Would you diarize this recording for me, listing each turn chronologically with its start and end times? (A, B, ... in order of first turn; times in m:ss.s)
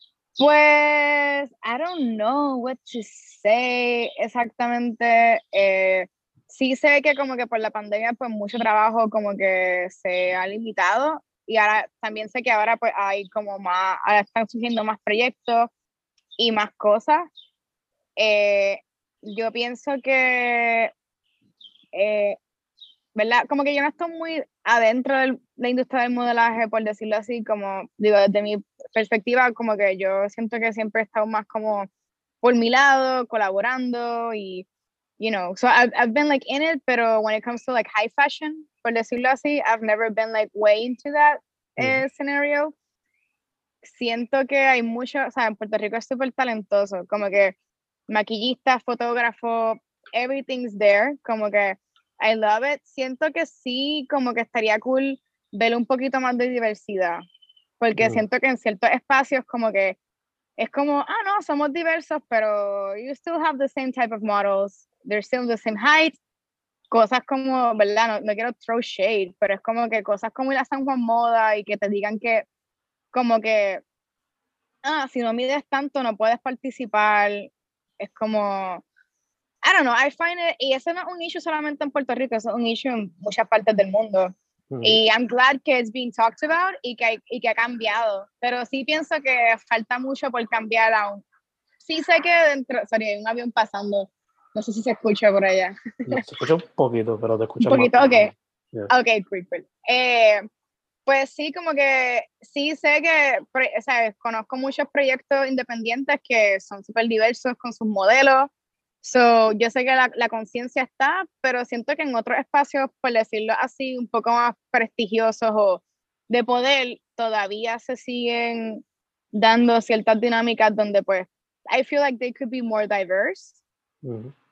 0:00.4-0:15.7 A
0:16.4-0:17.3 A
0:18.2-0:20.9 A
0:21.9-0:22.4 A
0:23.1-0:31.9 A
0:32.4-0:34.6 A
0:35.2-0:42.7 A
0:41.8-0:42.0 B
0:43.8-0:47.5 A
0:48.1-0:57.2 A
0:57.8-1:00.0 A
0:58.0-0:58.2 B
1:00.6-1:06.2 A
1:06.9-1:12.4 A
1:13.1-1:13.8 A
1:14.8-1:18.8 A
1:19.6-1:24.3 A
1:24.7-1:25.0 B
1:24.8-1:31.2 A
1:31.8-1:36.2 A
1:36.1-1:38.9 B
1:37.6-1:38.3 A
1:38.9-1:40.4 A
1:41.0-1:48.5 A
1:49.0-2:03.6 A
2:04.0-2:04.3 B